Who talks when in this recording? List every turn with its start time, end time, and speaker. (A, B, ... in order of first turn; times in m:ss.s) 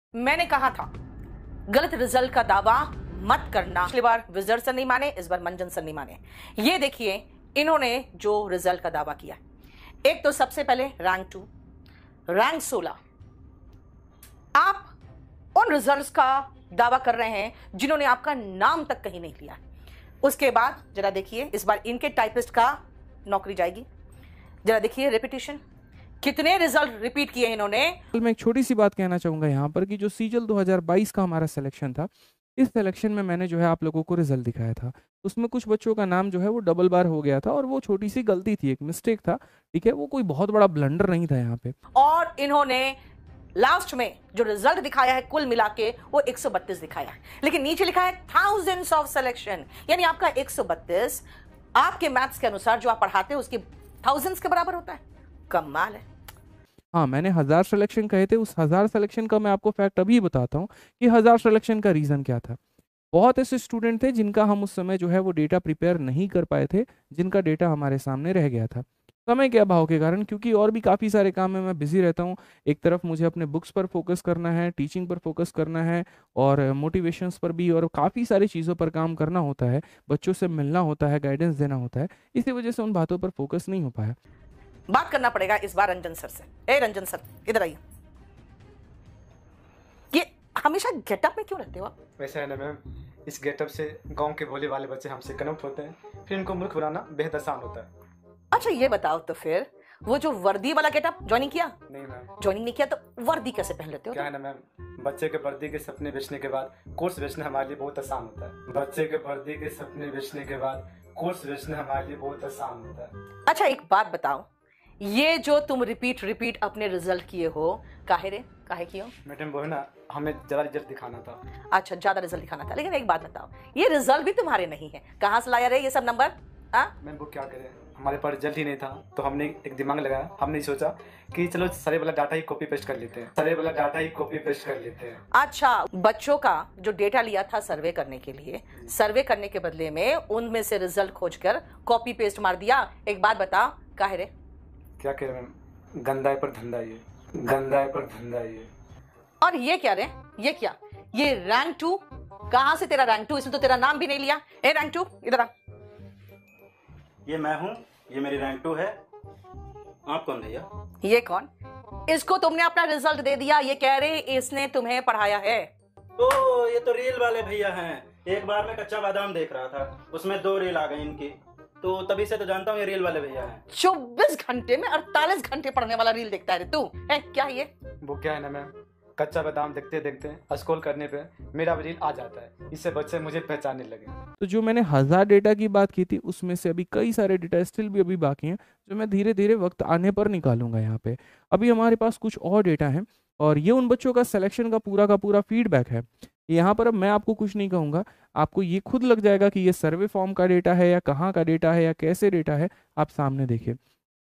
0:00.2-0:00.9 A
0:01.7-0:09.4 A
0:10.0-0:11.5 A
0:12.3-0:13.0 A
0:14.6-0:14.9 A
0:15.5-0:19.6 A
0:20.2-0:23.8 A
0:24.6-0:25.6 A
0:26.2-0:28.0 A
0:28.1-0:41.7 B
0:41.9-0:43.0 A
0:43.6-0:51.2 A
0:51.8-0:56.0 A
0:56.9-1:02.6 B
1:03.1-1:24.2 B
1:24.9-1:27.8 A
1:30.1-1:31.9 A
1:32.2-1:37.9 C
1:38.5-1:41.8 A
1:41.9-1:42.3 C
1:42.4-1:44.3 A
1:44.1-1:53.1 C
1:53.5-1:54.4 A
1:55.0-1:59.1 A
1:59.2-2:01.4 C
2:01.7-2:06.9 A
2:07.0-2:15.2 C
2:15.3-2:24.3 A
2:25.0-2:28.7 C
2:29.4-2:35.5 A
2:37.2-2:39.0 D
2:40.0-2:40.7 D
2:41.0-2:41.5 A
2:42.1-2:45.7 A
2:46.2-2:53.6 D
2:53.7-2:57.7 A
2:58.0-3:04.2 C
3:04.4-3:23.8 B